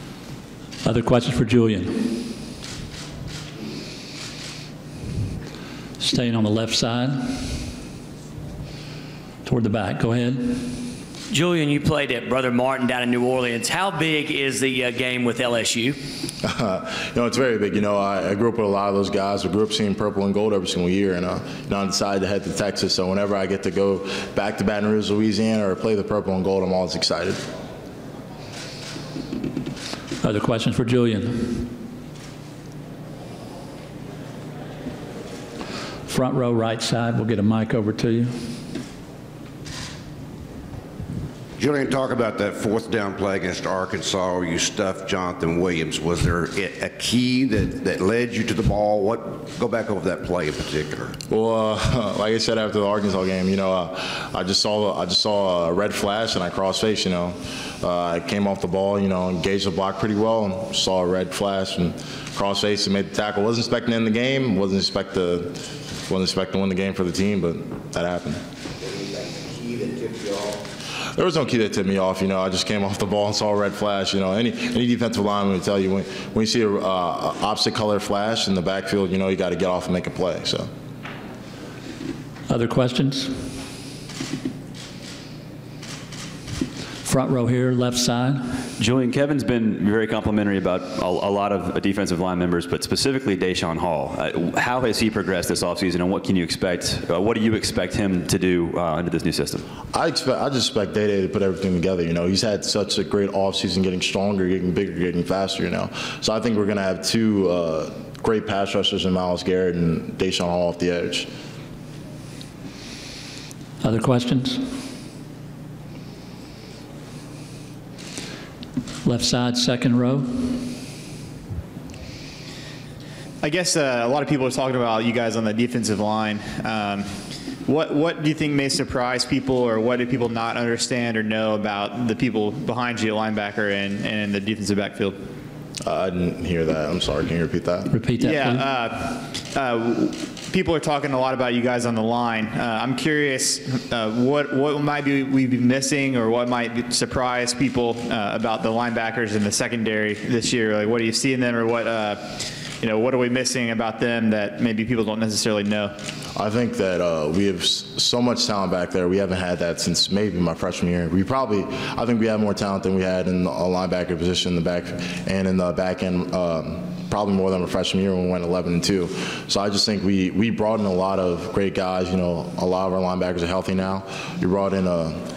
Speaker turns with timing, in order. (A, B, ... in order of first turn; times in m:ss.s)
0:00.8-0:02.2 A
0:06.0-0:07.6 A
0:09.5-0:10.7 A
0:11.3-0:16.0 B
0:16.4-0:27.4 C
0:30.2-0:31.7 A
0:36.1-0:38.4 A
0:41.6-0:51.1 D
0:51.3-1:08.4 C
1:08.8-1:10.6 D
1:11.2-1:20.7 C
1:22.5-1:23.3 A
1:27.0-1:28.4 A
1:28.8-1:39.6 E
1:39.9-1:51.3 C
1:53.8-1:54.6 A
1:59.0-2:00.6 A
2:03.4-2:15.3 F
2:15.8-2:17.9 C
2:17.9-2:18.6 A
2:18.2-2:36.0 F
2:36.4-2:55.2 C